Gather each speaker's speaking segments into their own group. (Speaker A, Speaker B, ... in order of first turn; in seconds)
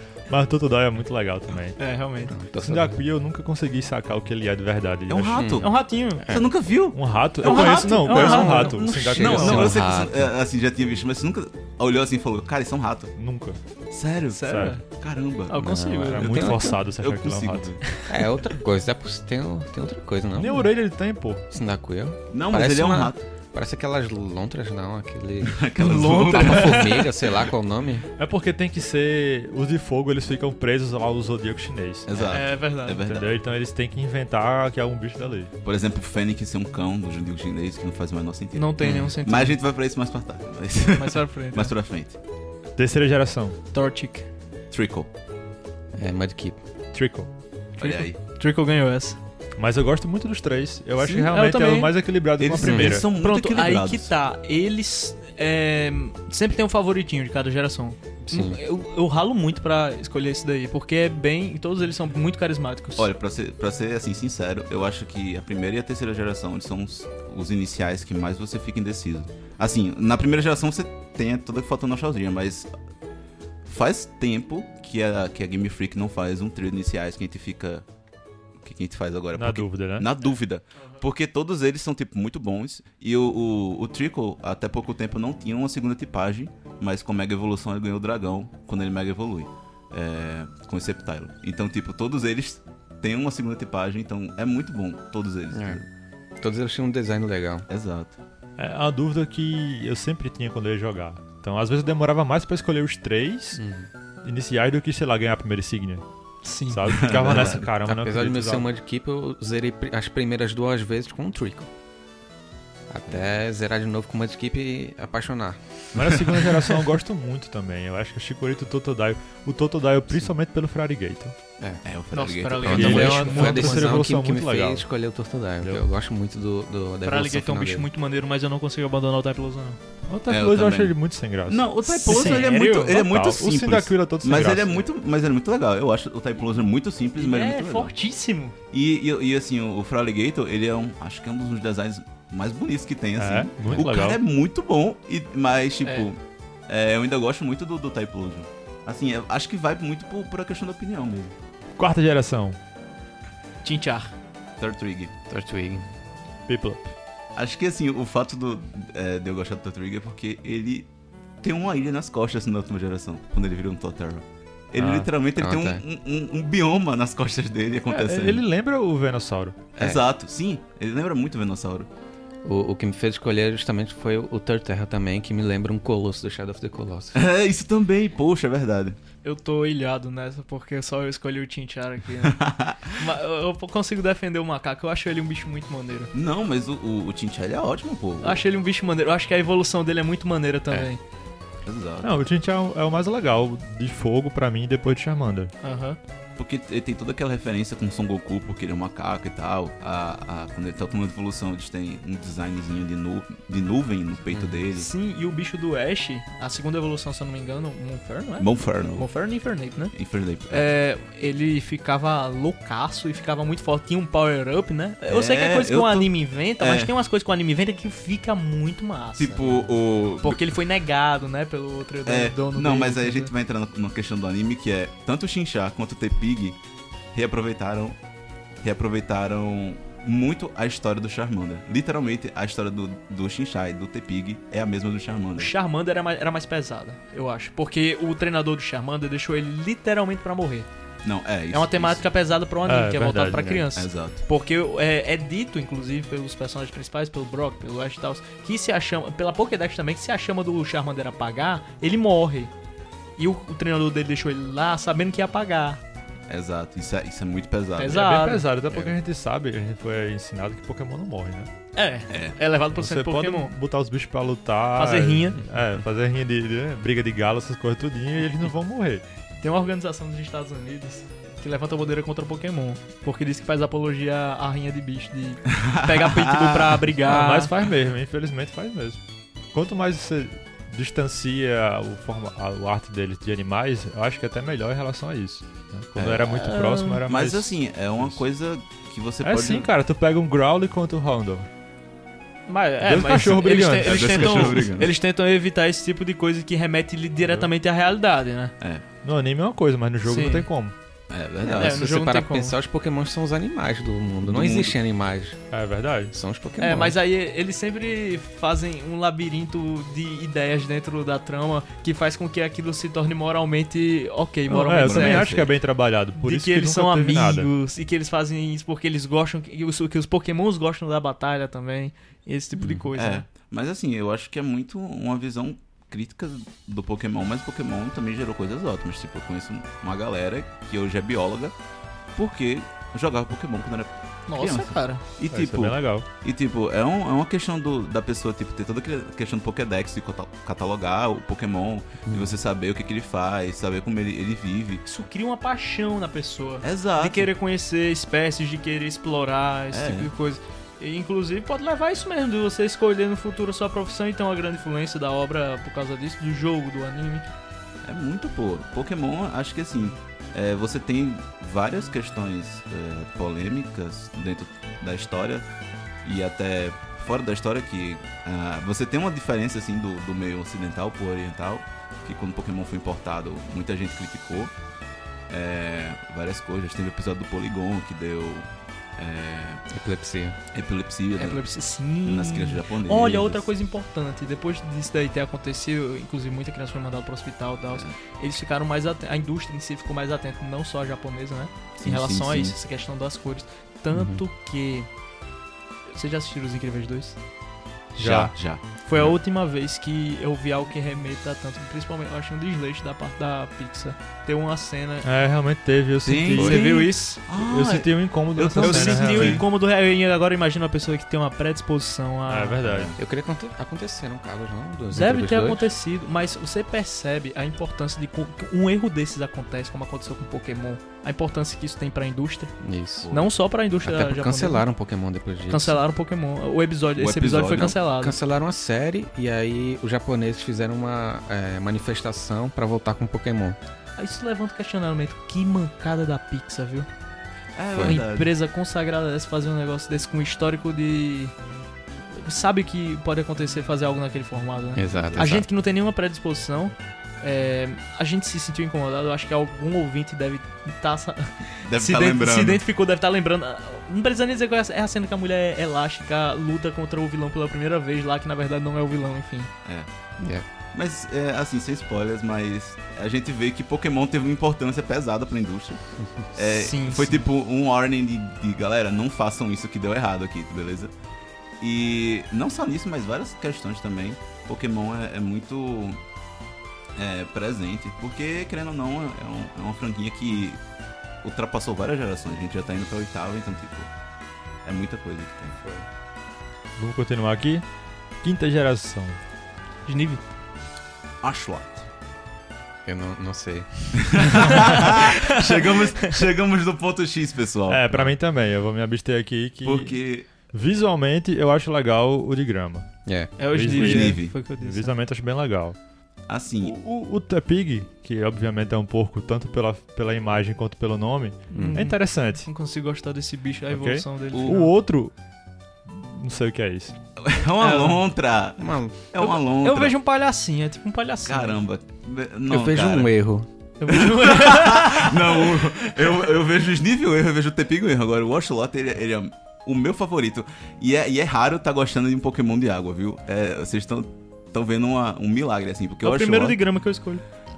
Speaker A: 0.3-1.8, 2.6-5.5, 6.9-9.8, 13.2-13.6, 14.5-14.8, 16.1-17.8, 20.4-21.4, 28.2-32.1, 33.0-35.5, 42.8-43.6, 46.9-47.3, 49.6-53.1, 79.3-80.1, 98.6-103.6, 104.2-106.0, 106.7-108.7, 115.9-121.3, 122.7-124.9, 125.6-125.9, 130.1-134.9, 143.2-144.2, 151.8-152.6, 156.5-156.9, 164.8-165.1, 167.9-169.6, 192.0-195.5, 242.7-243.7, 257.9-261.5, 262.8-269.0, 277.1-279.0, 279.5-288.1, 289.2-291.5, 292.8-294.4, 297.2-297.5, 299.0-300.7, 305.5-306.1, 314.5-317.5, 335.3-336.1, 398.0-398.3, 405.0-406.6, 407.3-409.4, 412.3-412.9, 486.8-487.6, 488.2-489.2, 497.7-500.0, 500.5-502.9, 503.5-505.8, 506.6-512.5, 513.7-515.1, 515.9-517.0
Speaker B: 1.8-2.3, 5.6-6.3, 7.4-8.9, 14.3-14.8, 15.5-16.5, 17.8-18.2, 25.8-27.1, 32.3-33.0, 38.5-39.6, 40.9-41.7, 43.7-44.3, 47.8-49.2, 51.0-52.0, 52.7-63.1, 106.4-107.0, 122.1-124.0, 127.0-129.8, 131.9-133.0, 137.2-138.6, 145.8-146.1, 153.6-154.1, 179.2-186.1, 188.2-191.0, 195.6-196.0, 204.7-210.0, 210.5-219.7, 220.2-223.3, 235.4-240.7, 241.5-252.5, 253.2-255.8, 257.8-258.5, 261.8-263.6, 264.8-265.4, 269.4-277.5, 286.3-287.0, 292.5-298.5, 300.1-300.5, 301.5-302.6, 306.6-315.4, 316.2-323.3, 334.3-335.0, 344.9-357.2, 381.2-394.9, 395.9-397.2, 398.9-405.1, 406.3-407.2, 408.6-412.7, 414.9-422.6, 423.1-424.6, 425.5-428.2, 434.0-436.9, 437.8-441.3, 442.1-459.5, 466.4-467.3, 489.9-490.2, 494.7-496.2, 503.4-504.9, 511.5-514.7, 517.6-518.0, 519.2-521.6, 523.8-526.1, 536.0-537.2
Speaker C: 2.3-3.0, 5.3-6.5, 8.2-10.3, 15.6-16.8, 18.1-20.7, 21.5-28.1, 38.8-39.2, 46.0-46.6, 52.6-52.9, 58.3-58.6, 95.5-95.8, 96.4-97.7, 103.6-103.9, 107.2-111.7, 112.9-116.3, 122.6-127.9, 155.3-155.9, 165.4-165.8, 169.8-170.0, 172.4-177.2, 204.3-204.6, 301.4-305.4, 306.1-307.0, 322.6-322.9, 342.1-342.4, 379.7-380.4, 393.9-394.2, 413.0-415.7, 422.6-423.1, 423.8-425.8, 427.6-433.6, 437.8-438.1, 444.8-445.5, 460.2-460.5, 492.9-494.9, 503.1-503.3, 511.5-511.8, 518.6-519.0, 522.5-523.5
Speaker D: 5.1-5.7, 6.3-13.1, 13.9-17.8, 22.3-23.2, 25.4-27.0, 32.1-33.4, 35.6-42.2, 44.7-45.1, 47.8-48.2, 52.4-54.1, 63.0-72.7, 73.7-77.8, 78.6-95.9, 97.7-98.2, 106.9-107.7, 121.8-123.2, 130.3-130.9, 131.5-137.9, 138.7-151.3, 154.6-155.1, 157.3-160.9, 161.4-168.4, 169.8-171.9, 177.1-179.0, 182.2-182.9, 186.1-188.4, 191.6-192.2, 196.4-204.9, 208.4-209.1, 209.9-210.7, 215.1-216.9, 219.2-220.5, 222.1-226.6, 227.1-228.0, 228.6-235.5, 241.0-242.1, 243.8-244.2, 256.3-258.0, 262.1-262.4, 275.6-276.8, 286.0-286.3, 287.1-289.7, 293.8-294.9, 301.1-301.9, 304.2-304.8, 314.7-315.5, 322.9-331.6, 332.1-344.8, 346.6-347.3, 349.7-350.1, 357.9-365.5, 366.0-374.5, 375.3-379.6, 380.5-381.4, 382.0-383.5, 391.8-392.6, 398.0-399.2, 406.0-409.4, 412.6-413.0, 423.0-423.3, 427.0-427.8, 437.6-438.3, 445.0-445.4, 451.6-452.6, 459.6-459.9, 460.7-465.8, 466.4-470.9, 471.6-476.0, 477.0-480.6, 481.2-483.9, 484.6-485.6, 491.2-491.9, 494.0-498.0, 499.6-500.3, 503.8-504.4, 506.3-506.8, 514.3-514.6, 517.2-520.0, 521.3-523.1, 523.9-536.6